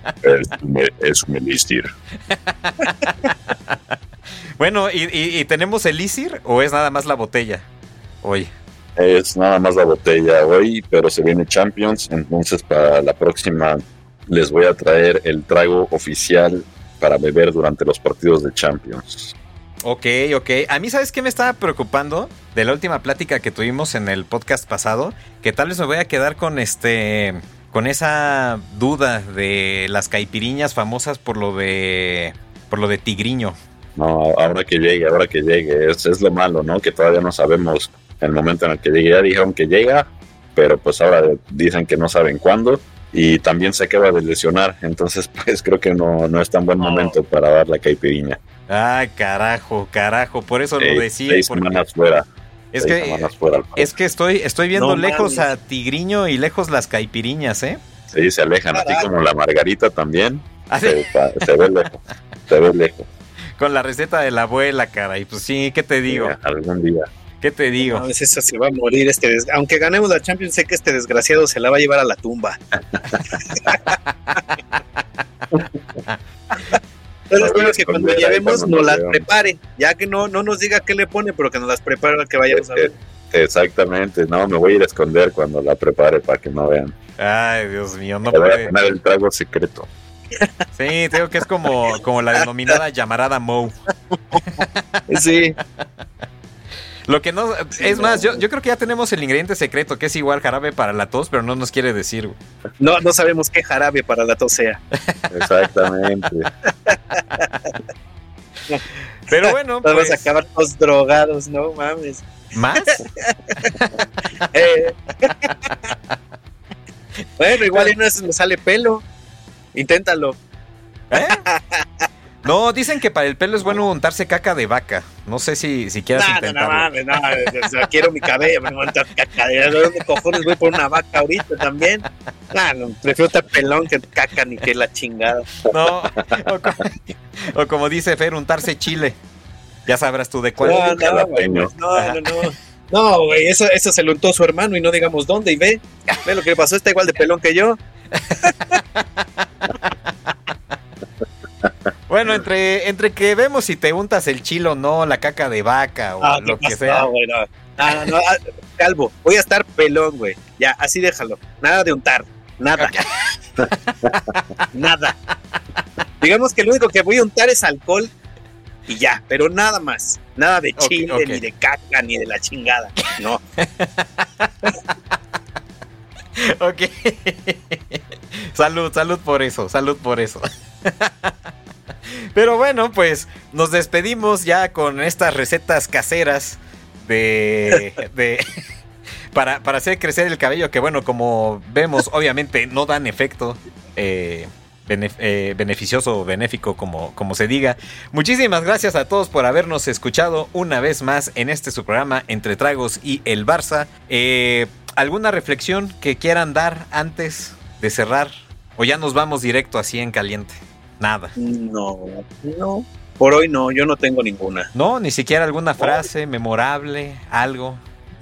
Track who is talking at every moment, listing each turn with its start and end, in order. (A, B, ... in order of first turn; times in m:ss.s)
0:00.2-0:01.9 A
0:02.3-0:03.8 B
0:04.6-0:07.7 B
0:08.2-0:08.5 B
0:09.0-0:19.3 A
0:19.8-0:33.6 B
0:34.0-0:48.4 A
0:46.8-0:47.2 C
0:48.7-0:51.8 B
0:50.8-0:52.3 A
0:52.7-0:57.8 B
0:52.8-0:53.9 A
0:54.7-0:55.5 C
0:58.1-1:03.1 A
0:58.7-0:59.1 C
1:00.7-1:01.5 B
1:03.6-1:06.4 B
1:06.1-1:07.1 A
1:07.4-1:08.1 B
1:07.8-1:12.6 C
1:12.9-1:13.4 A
1:13.5-1:13.9 C
1:17.3-1:23.0 C
1:17.3-1:19.2 A
1:22.5-1:27.0 A
1:27.2-1:28.7 B
1:28.3-1:29.9 A
1:30.8-1:33.8 B
1:34.4-1:34.8 B
1:35.1-1:35.6 C
1:37.1-1:42.4 B
1:37.8-1:38.4 C
1:42.8-1:44.8 C
1:45.3-1:46.5 A
1:46.9-1:47.5 C
1:48.7-1:52.3 C
1:49.3-1:50.3 B
1:52.6-1:53.0 B
1:52.8-1:53.7 C
1:53.7-1:54.1 B
1:54.5-1:55.6 C
1:57.4-1:59.0 C
1:59.7-2:00.4 C
2:01.1-2:01.4 B
2:01.2-2:02.1 C
2:02.4-2:06.9 B
2:06.2-2:15.5 C
2:15.7-2:19.2 B
2:19.9-2:20.9 B
2:20.6-2:21.7 A
2:20.6-2:27.8 C
2:28.2-2:30.3 B
2:28.4-2:28.7 C
2:32.1-2:37.1 B
2:36.2-2:43.0 C
2:42.8-2:43.1 B
2:43.6-2:44.6 B
2:44.7-2:45.2 C
2:46.2-2:48.1 C
2:48.9-2:53.4 C
2:50.8-2:51.4 B
2:53.6-2:54.5 B
2:56.4-3:01.3 B
3:02.3-3:08.4 B
3:09.3-3:31.4 B
3:31.4-3:34.7 C
3:34.7-3:37.8 B